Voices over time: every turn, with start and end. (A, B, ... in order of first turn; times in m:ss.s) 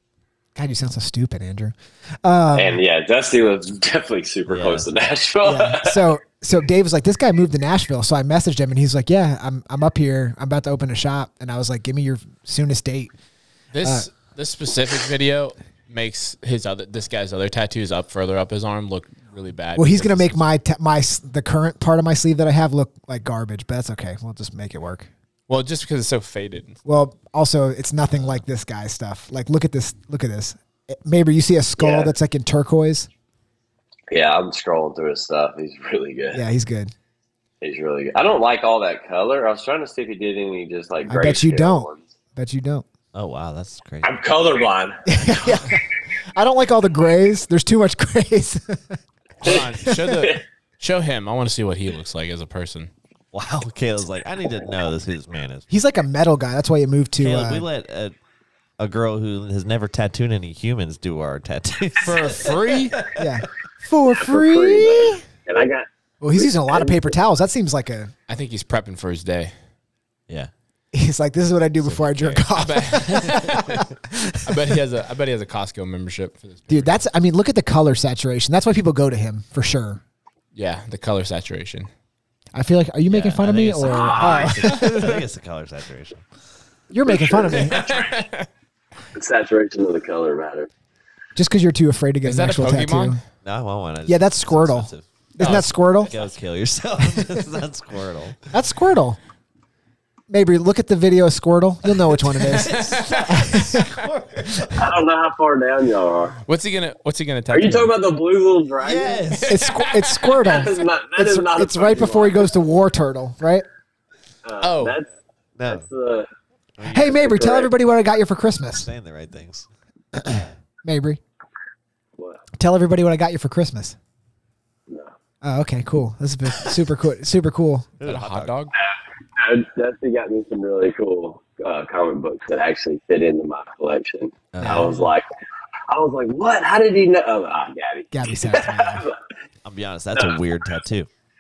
0:00.5-0:02.8 A
0:02.5-0:06.0 B
0:04.5-0:04.8 C
0:05.4-0:13.1 A
0:13.7-0:20.4 D
0:13.8-0:14.1 A
0:19.7-0:25.1 A
0:25.5-0:26.8 D
0:26.8-0:33.1 A
0:31.8-0:32.1 B
0:34.1-0:36.4 B
0:36.3-0:36.9 A
0:37.6-0:42.0 B
0:41.1-0:42.8 A
0:43.1-0:44.1 C
0:44.0-0:45.2 B
0:45.1-0:45.8 A
0:46.3-0:50.2 A
0:49.4-0:50.4 B
0:49.4-0:52.9 D
0:53.3-0:55.6 C
0:55.7-0:57.7 A
0:57.2-0:58.1 C
0:58.8-1:03.2 C
1:02.0-1:03.0 D
1:03.2-1:05.2 A
1:04.1-1:07.1 B
1:06.2-1:08.1 A
1:08.3-1:09.5 D
1:10.9-1:14.8 A
1:11.8-1:12.4 C
1:12.5-1:13.8 D
1:14.4-1:17.0 D
1:16.7-1:20.0 A
1:20.5-1:21.9 D
1:22.5-1:25.2 A
1:23.1-1:26.2 C
1:23.8-1:24.7 B
1:26.9-1:27.8 A
1:27.0-1:28.2 B
1:27.5-1:28.5 D
1:29.1-1:30.7 B
1:31.4-1:33.2 A
1:32.2-1:33.2 D
1:33.4-1:38.4 C
1:34.0-1:36.1 A
1:35.4-1:36.1 D
1:38.5-1:39.2 A
1:40.3-1:44.0 A
1:42.4-1:44.9 C
1:42.6-1:43.4 D
1:44.7-1:46.4 B
1:46.5-1:47.9 D
1:47.5-1:49.3 B
1:48.8-1:49.5 C
1:49.4-1:50.6 D
1:49.4-1:53.6 A
1:50.4-1:52.5 B
1:54.4-1:55.0 B
1:54.6-1:54.9 D
1:55.6-1:55.8 C
1:55.6-1:56.3 B
1:56.8-1:57.4 C
1:56.8-1:58.9 A
1:57.0-1:57.7 B
1:58.8-1:59.7 C
2:00.2-2:01.2 A
2:02.6-2:04.0 A
2:05.4-2:07.9 A
2:08.0-2:08.5 C
2:08.0-2:08.7 D
2:09.4-2:15.2 B
2:14.5-2:15.1 C
2:14.6-2:15.0 A
2:15.9-2:19.2 B
2:18.1-2:19.0 A
2:19.6-2:21.1 C